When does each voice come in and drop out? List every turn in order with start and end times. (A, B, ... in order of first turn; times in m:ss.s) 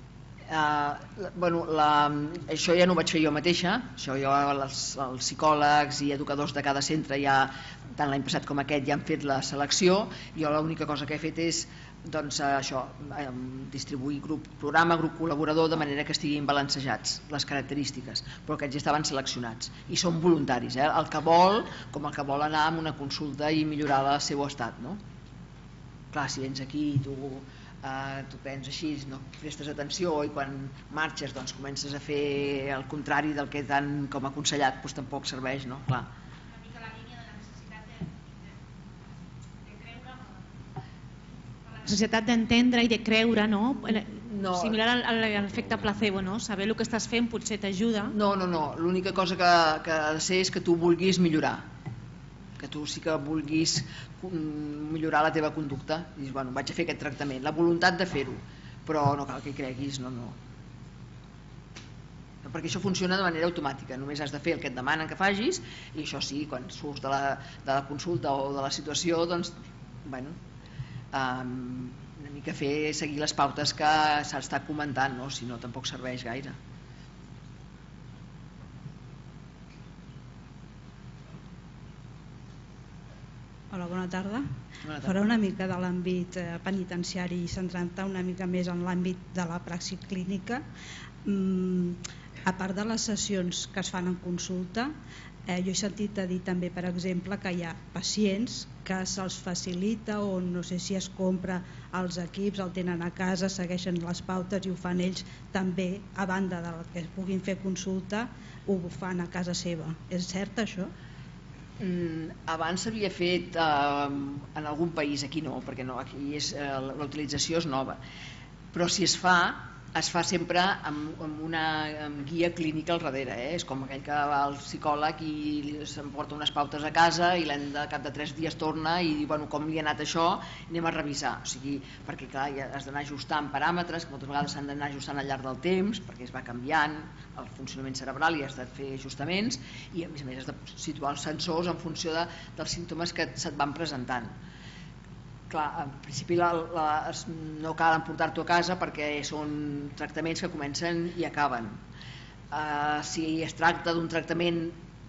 0:00.5-0:25.0 A
0:26.1-0:36.1 A
0:41.8-0:48.1 B
0:44.1-0:44.8 A
0:48.1-0:51.6 A
0:52.6-1:00.4 A
1:02.4-1:10.4 A
1:11.1-1:16.6 A
1:23.7-1:24.4 C
1:24.8-1:25.2 A
1:25.0-1:30.6 C
1:31.2-1:34.9 C
1:35.5-1:50.9 C
1:51.8-1:58.0 A
1:58.7-2:24.3 A
2:25.5-2:31.8 A
2:32.5-2:34.8 A